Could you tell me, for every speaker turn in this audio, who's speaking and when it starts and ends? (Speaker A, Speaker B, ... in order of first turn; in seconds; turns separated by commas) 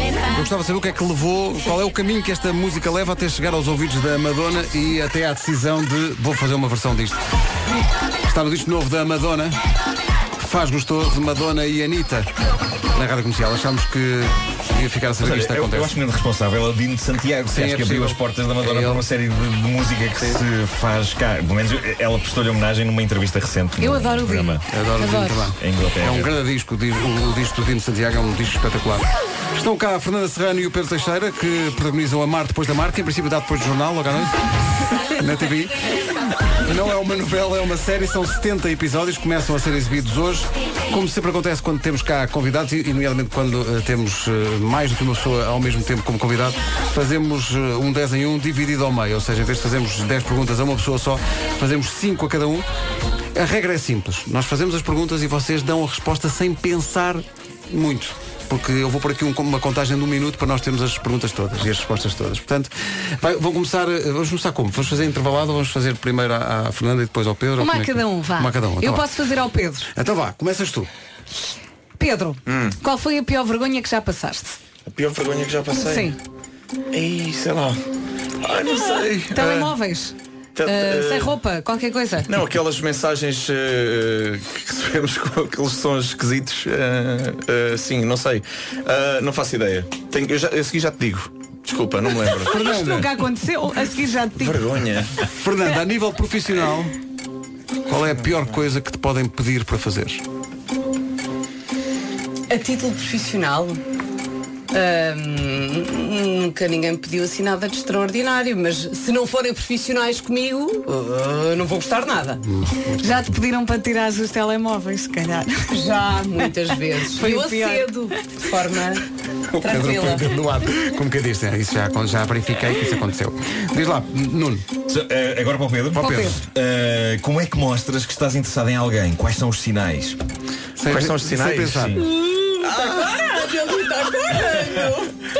Speaker A: 0.3-7.2, Speaker A: 8.2-9.6, Speaker A: 10.4-12.3, Speaker A: 12.9-15.9, Speaker B: 15.2-24.6, Speaker A: 17.5-19.0, Speaker C: 23.8-25.5, Speaker A: 24.7-35.9, Speaker B: 25.6-26.3, Speaker A: 36.5-52.7, Speaker A: 53.3-69.0, Speaker C: 67.6-69.9, Speaker A: 69.9-70.9, Speaker C: 72.0-74.6, Speaker D: 72.5-72.8, Speaker D: 74.9-76.1, Speaker C: 75.8-76.2, Speaker D: 76.9-77.8, Speaker D: 78.4-79.7, Speaker C: 79.3-82.3, Speaker D: 80.6-81.3, Speaker D: 82.3-92.6, Speaker A: 92.5-93.1, Speaker C: 92.5-94.6, Speaker D: 94.3-95.1, Speaker A: 95.2-96.9, Speaker A: 97.9-100.2, Speaker D: 98.1-98.5, Speaker E: 102.5-103.8, Speaker E: 104.7-112.4, Speaker A: 112.4-113.2, Speaker C: 113.0-115.7, Speaker E: 115.7-119.0, Speaker C: 117.1-118.0, Speaker A: 119.5-124.6, Speaker E: 119.6-120.3, Speaker B: 124.9-130.2, Speaker A: 125.9-126.4, Speaker C: 126.0-126.4, Speaker A: 130.8-132.0, Speaker D: 130.8-131.9, Speaker B: 131.7-132.0, Speaker E: 132.0-135.1, Speaker D: 132.6-133.7